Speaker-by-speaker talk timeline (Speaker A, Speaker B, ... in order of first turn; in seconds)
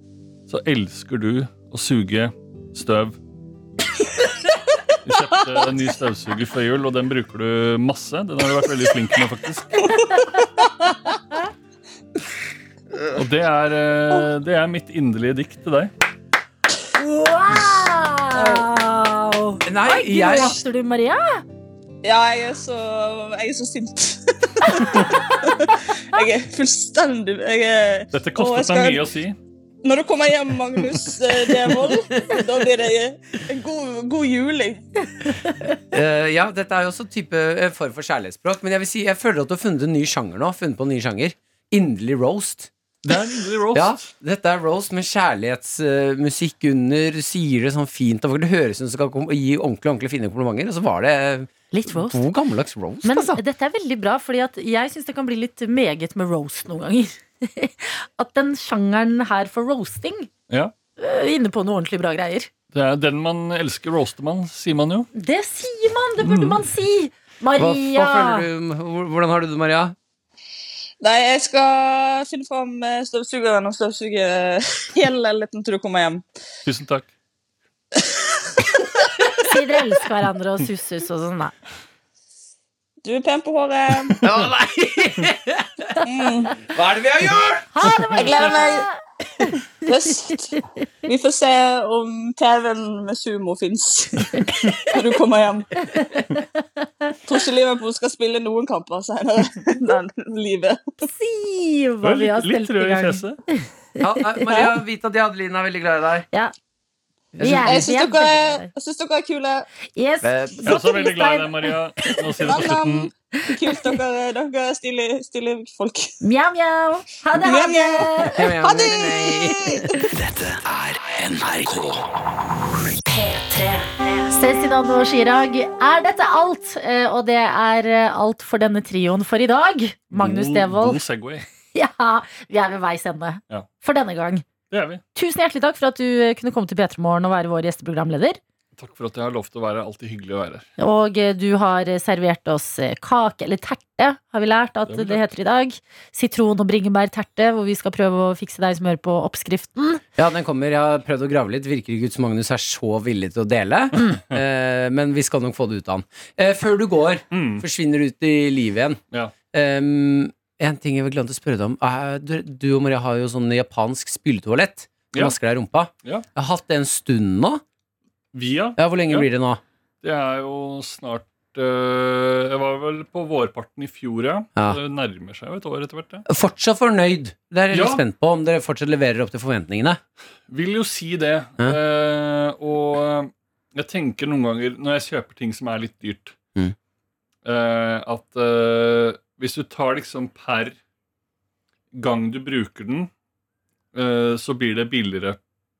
Speaker A: 0.5-3.2, 5.0-9.9, 13.1-15.9, 28.1-29.4, 43.0-44.0, 62.7-65.1, 66.2-66.6, 76.6-77.1, 102.0-103.4, 110.7-113.1, 130.1-131.4, 134.7-135.0, 138.8-140.7, 144.9-145.2, 157.3-157.6, 168.3-169.3, 170.0-176.2, 177.7-178.0, 180.5-186.3, 187.4-190.8, 191.9-193.1, 193.9-195.4
Speaker B: 10.1-10.4, 17.0-21.4, 24.7-25.2, 51.7-52.2, 53.0-60.3, 61.0-62.5, 65.1-68.5, 79.4-81.5, 87.7-89.5, 96.2-96.6, 101.0-103.6, 107.3-108.7, 110.0-112.2, 116.2-118.5, 123.1-131.0, 131.7-134.4, 135.1-138.4, 140.8-150.0
Speaker C: 18.3-18.7, 22.0-29.1, 29.8-35.0, 71.0-76.2, 83.0-84.2, 86.0-86.5, 88.2-88.9, 89.8-96.3, 97.3-100.8, 104.5-104.8, 107.4-109.7, 112.4-116.1, 117.3-119.8
Speaker D: 19.6-20.6, 35.7-42.7, 43.7-53.4, 67.6-69.9, 84.2-85.9, 86.6-88.6, 104.0-106.2, 107.4-107.9, 110.2-110.8, 118.3-119.9, 150.2-159.0, 159.5-167.6, 168.8-169.6, 176.3-180.0
Speaker E: 120.1-122.1